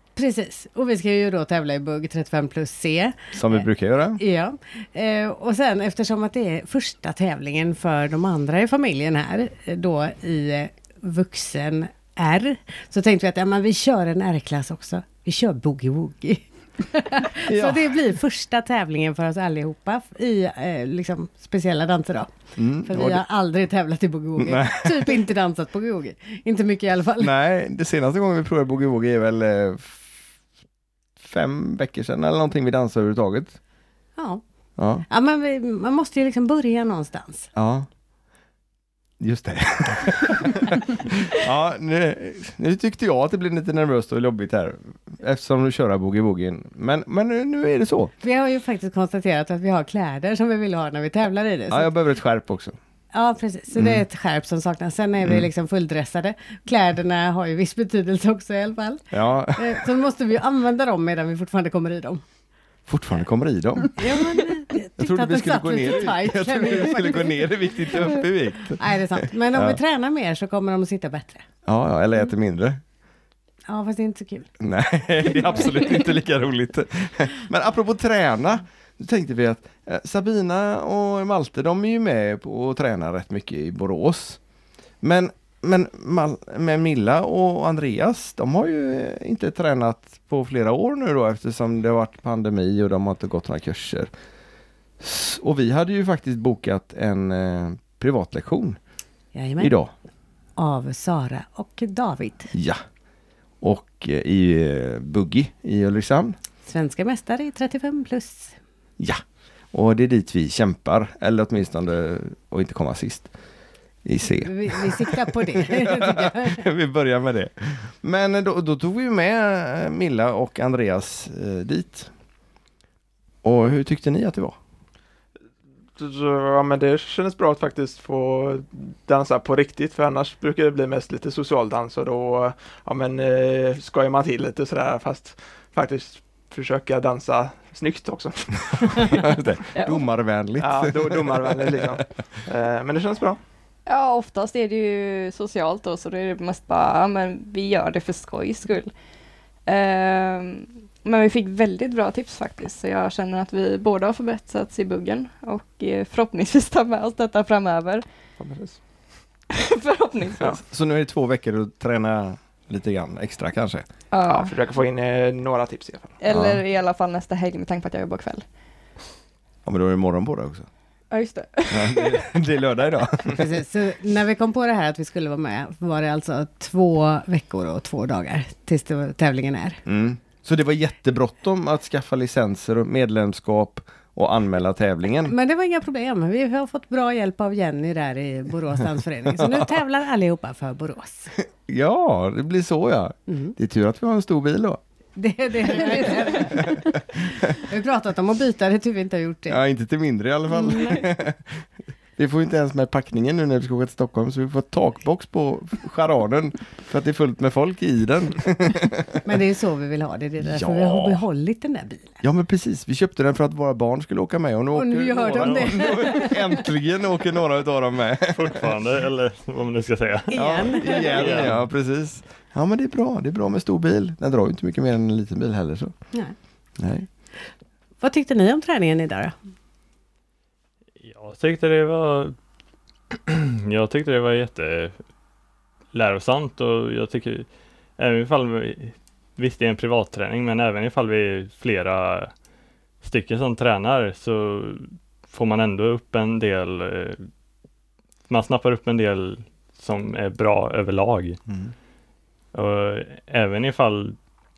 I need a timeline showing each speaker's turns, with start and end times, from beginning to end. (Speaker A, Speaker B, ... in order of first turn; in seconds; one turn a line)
Speaker A: 0.2-3.6
Speaker B: 3.3-4.2
Speaker A: 4.2-27.3
Speaker B: 17.5-17.9
Speaker B: 22.6-23.2
Speaker B: 24.4-25.2
Speaker B: 27.2-30.1
Speaker B: 31.2-33.6
Speaker A: 34.2-34.4
Speaker B: 34.8-35.0
Speaker A: 35.1-37.5
Speaker B: 37.5-37.9
Speaker B: 39.2-48.1
Speaker A: 48.2-51.9
Speaker B: 51.7-52.8
Speaker A: 53.1-62.2
Speaker B: 53.7-54.0
Speaker B: 59.1-59.9
Speaker B: 62.9-64.2
Speaker A: 64.0-67.4
Speaker B: 65.0-69.8
Speaker A: 68.8-71.5
Speaker B: 71.7-72.8
Speaker A: 73.7-74.5
Speaker B: 74.6-84.4
Speaker B: 85.0-94.1
Speaker B: 95.0-98.8
Speaker A: 99.3-99.8
Speaker B: 99.6-99.9
Speaker A: 100.6-102.5
Speaker B: 102.5-102.8
Speaker B: 103.6-106.4
Speaker A: 106.7-108.6
Speaker B: 109.7-113.3
Speaker B: 114.0-122.1
Speaker A: 114.3-116.6
Speaker B: 123.4-124.6
Speaker C: 126.0-139.3
Speaker B: 139.0-141.9
Speaker D: 139.8-140.0
Speaker C: 140.6-143.4
Speaker D: 143.9-148.9
Speaker D: 149.7-158.0
Speaker C: 158.4-158.8
Speaker D: 159.5-160.6
Speaker B: 160.4-163.9
Speaker D: 164.1-164.5
Speaker C: 164.3-166.2
Speaker D: 166.2-168.4
Speaker B: 166.3-166.6
Speaker B: 169.7-170.7
Speaker D: 171.1-172.3
Speaker B: 171.7-173.5
Speaker A: 173.3-179.8
Speaker B: 179.8-185.3
Speaker A: 185.3-191.3
Speaker B: 189.3-189.7
Speaker B: 191.4-194.8
Speaker A: 193.3-193.6
Speaker A: 195.2-199.6
Speaker B: 196.4-197.4
Speaker B: 199.5-201.7
Speaker A: 200.6-201.0
Speaker B: 202.2-209.2
Speaker A: 209.2-212.2
Speaker B: 210.4-211.2
Speaker B: 212.2-218.7
Speaker A: 214.7-216.6
Speaker E: 215.4-215.7
Speaker E: 218.3-221.6
Speaker A: 220.3-221.5
Speaker B: 220.3-225.9
Speaker B: 226.8-227.1
Speaker A: 228.0-229.3
Speaker E: 231.0-232.4
Speaker E: 233.1-235.0
Speaker E: 235.9-237.5
Speaker E: 238.0-242.3
Speaker E: 243.0-247.3
Speaker E: 248.3-251.4
Speaker E: 252.5-254.2